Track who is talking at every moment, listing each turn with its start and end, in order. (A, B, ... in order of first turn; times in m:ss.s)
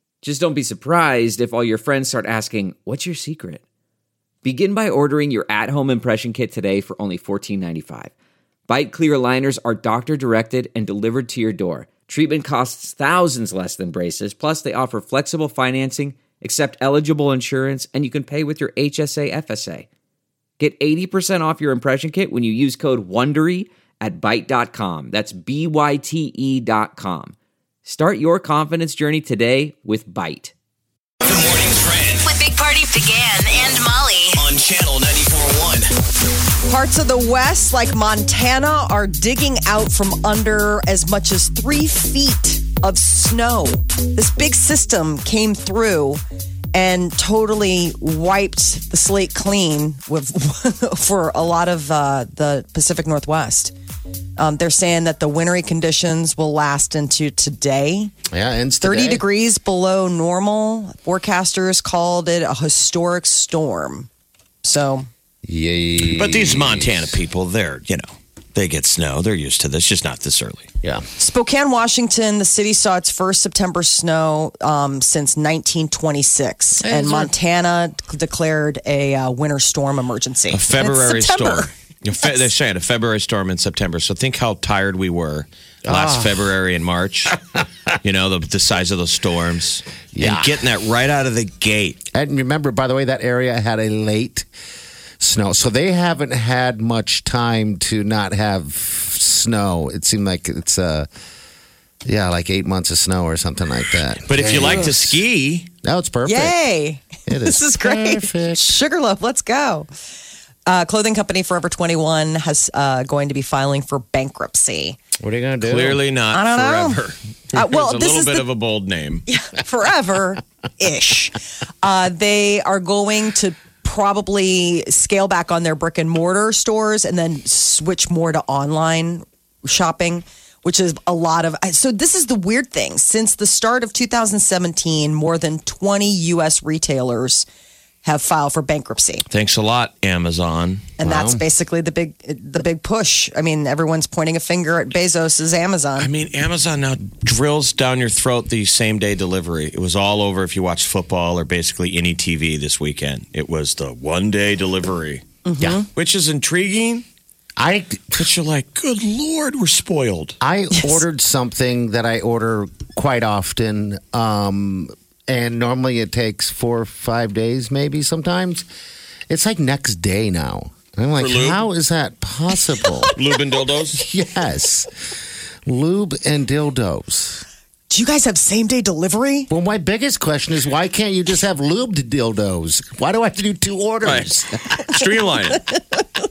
0:00.2-0:03.6 A
0:04.4-0:08.1 A
0:08.7-0:19.9 A
0:20.6-0:30.5 A
0:31.2-0:32.3 B
0:32.2-0:34.4 C
0:34.3-0:35.9 B
0:36.6-0:46.2 D
0:46.7-0:53.7 D
0:54.4-0:58.1 D
0:58.3-0:59.2 E
0:58.8-1:04.1 D
1:04.6-1:05.1 D
1:05.4-1:07.1 E
1:06.0-1:10.7 F
1:11.2-1:21.7 D
1:16.8-1:17.3 E
1:20.5-1:27.4 F
1:25.9-1:26.4 E
1:28.0-1:32.0 F
1:30.1-1:30.6 E
1:32.1-1:34.5 E
1:35.2-1:41.1 E
1:42.0-1:45.2 E
1:44.2-1:45.7 F
1:45.8-1:46.6 E
1:46.2-1:49.9 D
1:47.3-1:48.8 E
1:50.7-1:55.0 D
1:55.2-1:56.0 E
1:55.6-1:59.3 F
1:56.3-1:57.0 D
1:57.5-1:58.5 D
1:59.3-2:17.4 D
2:18.0-2:19.3 D
2:19.3-2:20.9 F
2:21.0-2:26.1 D
2:21.0-2:21.4 E
2:26.0-2:35.2 F
2:35.4-2:35.9 D
2:35.6-2:35.8 E
2:36.0-2:37.0 F
2:37.6-2:38.3 E
2:38.1-2:40.4 F
2:40.4-2:48.6 E
2:40.7-2:41.0 D
2:49.3-2:53.1 E
2:51.2-2:51.7 F
2:53.1-2:54.0 F
2:53.9-2:54.9 E
2:55.7-2:57.4 E
2:57.9-2:59.5 D
2:59.5-3:04.8 E
3:04.0-3:05.7 F